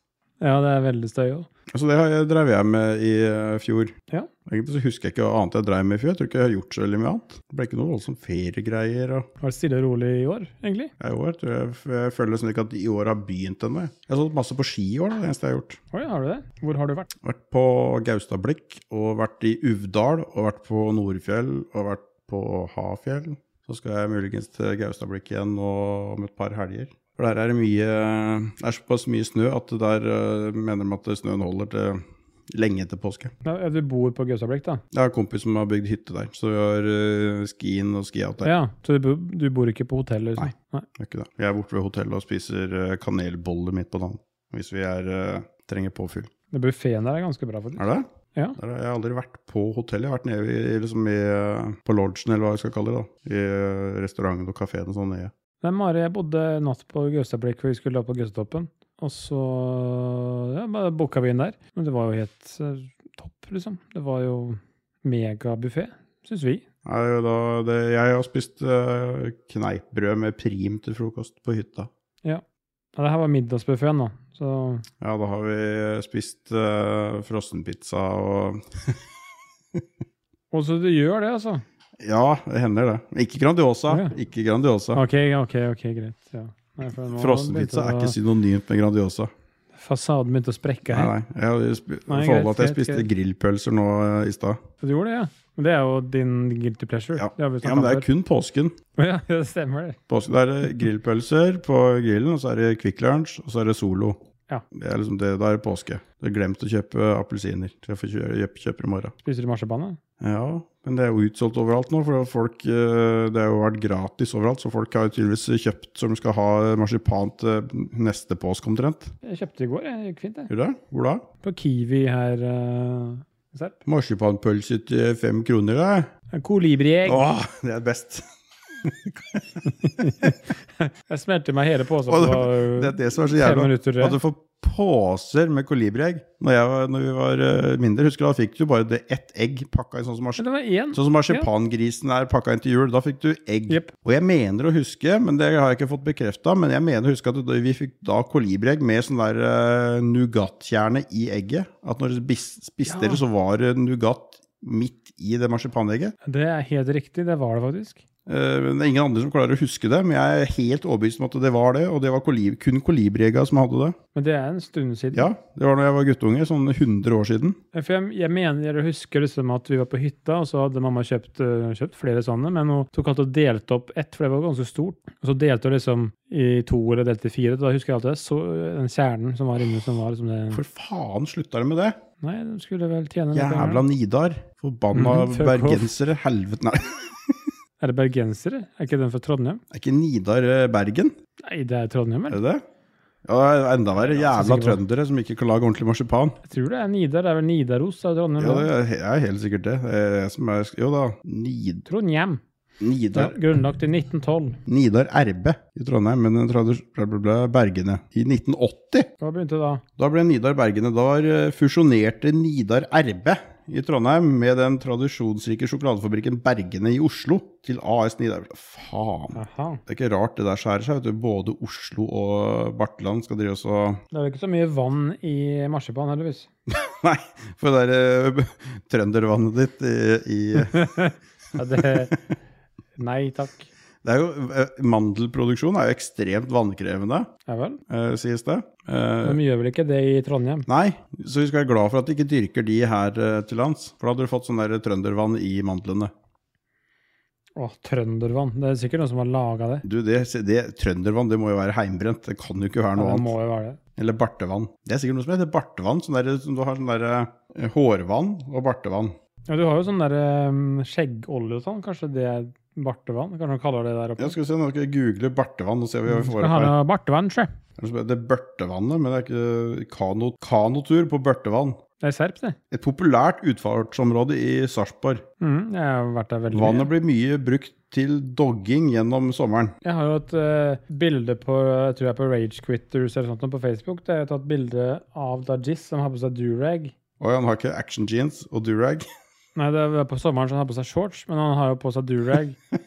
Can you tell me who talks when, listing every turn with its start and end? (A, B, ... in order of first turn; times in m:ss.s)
0:00.4-0:01.5 A
0:01.7-0:03.9 B
0:04.5-0:09.3 B
0:09.4-0:10.9 A
0:11.0-0:15.8 B
0:15.9-0:17.1 A
0:17.2-0:33.3 B
0:33.4-0:34.8 A
0:34.9-0:38.5 B
0:38.4-0:40.9 A
0:40.4-0:46.3 B
0:46.5-0:48.6 A
0:47.8-0:55.3 B
0:55.6-1:06.6 A
1:06.8-1:11.9 B
1:13.0-1:14.8 A
1:15.0-1:19.0 B
1:20.5-1:21.6 A
1:22.0-1:25.0 B
1:24.9-1:28.2 A
1:27.1-1:29.3 B
1:29.8-1:31.1 A
1:30.9-1:34.6 B
1:32.1-1:33.1 A
1:34.8-1:38.1 A
1:37.2-1:38.8 B
1:39.0-1:40.0 A
1:40.1-1:44.2 B
1:44.7-1:49.2 B
1:49.2-1:50.0 A
1:50.2-1:59.2 B
1:59.2-2:00.5 A
2:00.5-2:01.2 B
2:01.4-2:03.8 A
2:03.8-2:06.1 B
2:06.3-2:07.3 A
2:07.1-2:08.3 B
2:08.8-2:10.4 B
2:09.8-2:14.2 A
2:12.1-2:36.2 B
2:20.4-2:21.5 A
2:32.9-2:33.2 A
2:36.2-2:38.0 A
2:38.3-2:44.0 B
2:44.2-2:45.3 A
2:45.1-2:47.6 B
2:47.7-3:00.6 A
3:00.5-3:02.0 B
3:02.2-3:03.9 A
3:03.3-3:07.4 B
3:04.9-3:05.9 A
3:07.8-3:09.6 A
3:09.7-3:11.1 B
3:11.4-3:12.4 A
3:12.3-3:12.6 B
3:13.3-3:16.4 B
3:14.0-3:14.8 A
3:16.5-3:18.7 A
3:18.4-3:21.9 B
3:21.9-3:22.4 A
3:22.8-3:23.4 B
3:23.1-3:24.6 A
3:24.7-3:29.1 B
3:29.2-3:29.8 A
3:30.0-3:44.0 B
3:39.3-3:39.8 A
3:44.1-3:46.5 A
3:46.7-3:51.0 B
3:50.7-3:52.1 A
3:51.8-3:52.2 B
3:53.0-3:53.7 A
3:54.0-3:57.3 B
3:57.5-3:57.8 A
3:57.9-3:59.4 B
3:59.2-4:00.7 A
4:00.7-4:06.1 B
4:07.6-4:09.8 A
4:09.8-4:13.3 B
4:13.0-4:13.8 A
4:14.0-4:19.1 B
4:19.5-4:24.4 A
4:24.2-4:26.7 B
4:26.1-4:27.5 A
4:27.8-4:31.8 B
4:32.0-4:32.6 A
4:32.7-4:35.2 B
4:35.4-4:36.9 A
4:36.5-4:39.8 B
4:39.8-4:47.0 A
4:47.2-4:49.1 B
4:49.6-4:52.6 A